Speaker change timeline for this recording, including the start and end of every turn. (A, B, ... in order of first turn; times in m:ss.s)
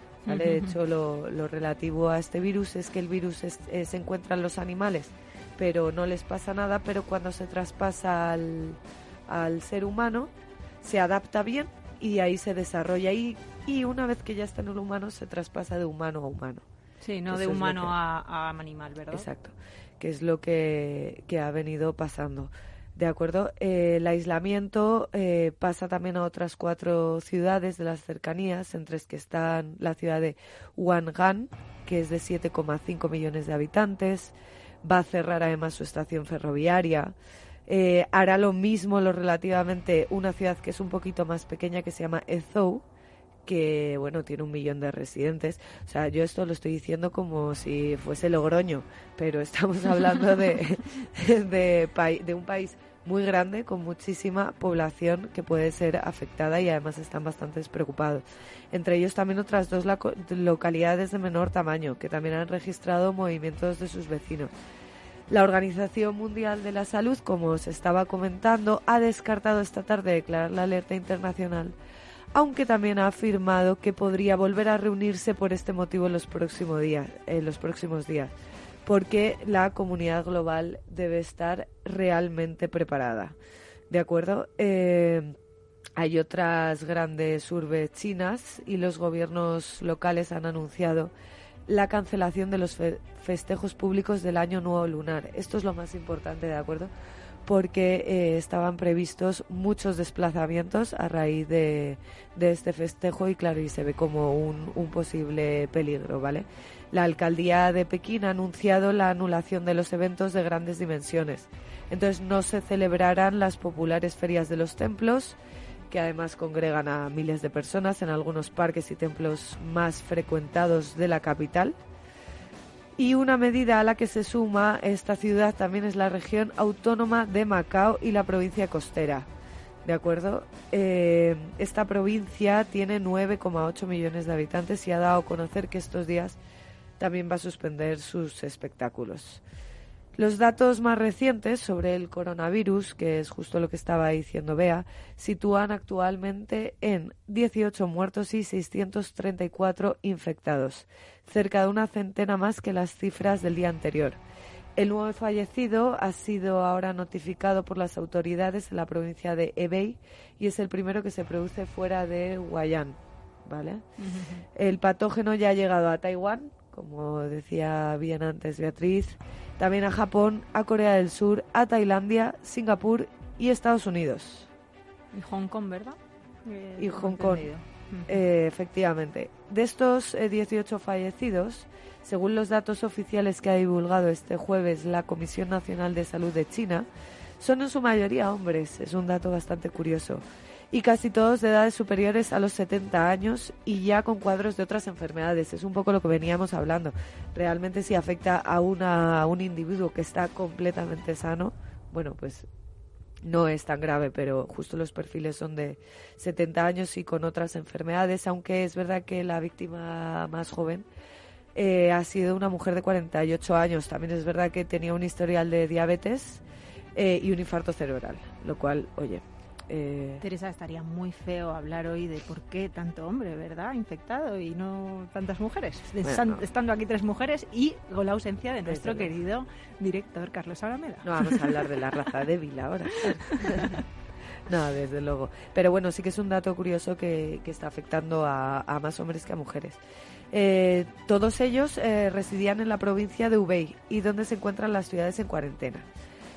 0:00.3-0:00.8 A
0:00.3-0:10.3 B
0:10.8-0:16.7 B
0:17.0-0:19.3 A
0:17.3-0:18.0 B
0:19.1-0:37.2 B
0:37.7-0:42.9 B
0:43.4-1:04.5 B
1:05.3-1:11.8 B
1:12.3-1:18.3 B
1:18.9-1:23.4 B
1:23.9-1:25.4 B
1:26.0-1:31.1 B
1:31.7-1:36.9 B
1:37.5-1:55.4 B
1:55.9-2:01.8 B
2:03.0-2:09.3 B
2:09.8-2:16.4 B
2:17.0-2:19.4 B
2:20.2-2:34.2 B
2:34.8-2:43.8 B
2:44.0-2:44.4 A
2:44.5-2:54.5 B
2:55.1-2:58.2 A
2:56.8-2:57.5 B
2:58.1-3:06.9 B
3:07.4-3:22.5 B
3:23.2-3:30.9 B
3:31.6-3:36.4 B
3:37.0-3:40.2 B
3:40.2-3:51.7 A
3:46.0-3:46.4 B
3:48.6-3:49.1 B
3:51.0-3:53.8 B
3:53.1-3:53.8 A
3:54.5-3:59.8 B
4:00.3-4:05.9 B